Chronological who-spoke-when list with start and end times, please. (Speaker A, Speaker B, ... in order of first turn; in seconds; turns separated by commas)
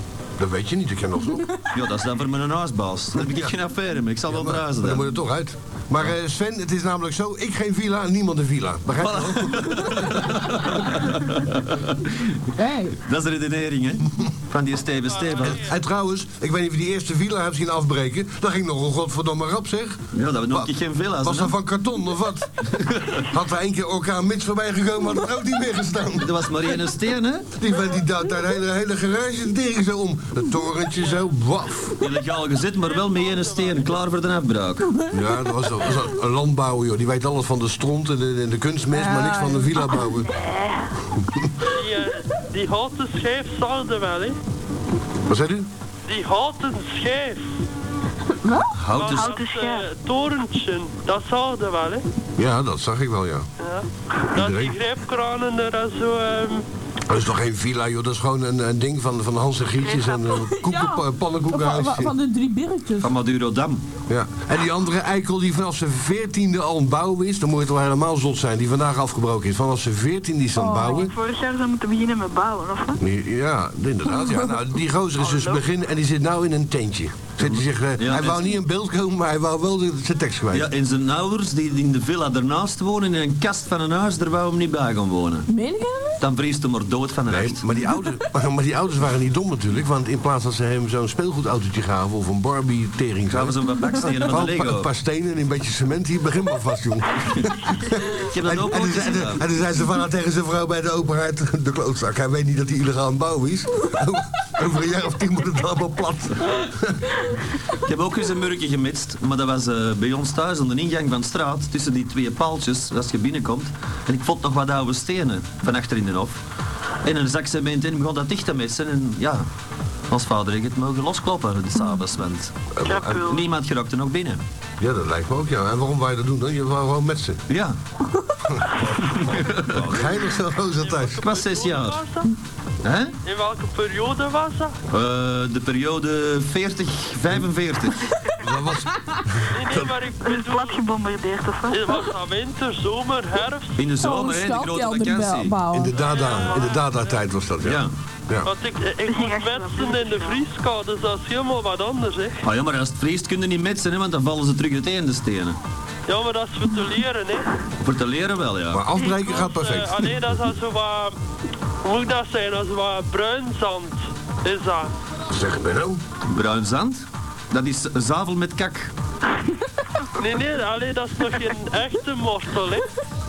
Speaker A: 0.4-1.5, Speaker B: 1.7-5.0, Speaker A: 3.1-3.5, Speaker A: 4.3-10.1, Speaker B: 9.0-12.4, Speaker C: 12.6-13.0, Speaker B: 13.0-15.6, Speaker D: 15.0-15.7, Speaker A: 15.4-20.0, Speaker B: 20.1-21.5, Speaker A: 21.2-26.4, Speaker B: 22.7-23.2, Speaker B: 26.2-27.5, Speaker A: 27.6-32.0, Speaker D: 30.9-31.2, Speaker B: 32.0-34.9, Speaker D: 32.8-34.0, Speaker A: 35.1-40.3, Speaker C: 38.9-40.0, Speaker E: 40.2-40.8, Speaker A: 41.2-41.5, Speaker D: 41.7-44.4, Speaker A: 45.3-45.7, Speaker D: 46.0-47.5, Speaker C: 48.4-48.7, Speaker B: 48.7-49.3, Speaker D: 48.9-52.0, Speaker E: 49.1-49.8, Speaker A: 52.4-53.5, Speaker D: 53.6-56.6, Speaker A: 54.3-54.8, Speaker A: 57.0-62.1, Speaker E: 59.8-60.4, Speaker C: 60.4-63.1, Speaker B: 63.0-63.8, Speaker A: 64.1-71.1, Speaker C: 70.5-71.1, Speaker E: 71.0-73.0, Speaker A: 73.0-80.7, Speaker E: 75.2-75.6, Speaker B: 77.4-78.5, Speaker B: 80.5-85.5, Speaker C: 85.5-86.2, Speaker B: 86.2-87.6, Speaker A: 87.3-93.6, Speaker B: 93.3-94.9, Speaker A: 94.2-107.2, Speaker B: 98.3-99.4, Speaker B: 107.8-116.4, Speaker B: 117.0-119.5, Speaker B: 120.1-122.5, Speaker A: 122.8-123.2, Speaker E: 122.8-123.4, Speaker B: 123.2-124.4, Speaker A: 124.8-127.4, Speaker B: 127.5-127.8, Speaker A: 128.5-129.2, Speaker B: 129.1-130.1, Speaker A: 129.7-131.2, Speaker D: 130.8-132.3, Speaker B: 131.2-132.0, Speaker B: 132.8-133.1, Speaker D: 133.2-134.7, Speaker B: 134.9-138.1, Speaker A: 138.3-139.9, Speaker D: 139.5-140.8, Speaker E: 140.2-141.9, Speaker D: 141.7-143.8, Speaker B: 143.8-145.6, Speaker C: 144.0-145.9, Speaker A: 145.7-148.5, Speaker D: 145.9-147.2, Speaker B: 147.6-147.9, Speaker D: 148.4-152.4, Speaker E: 149.0-150.4, Speaker B: 152.4-155.6, Speaker D: 156.1-157.4, Speaker B: 157.8-158.8, Speaker A: 158.7-160.2, Speaker D: 159.0-161.2, Speaker D: 161.8-164.9, Speaker A: 165.3-166.0, Speaker B: 166.3-168.9, Speaker D: 170.2-172.9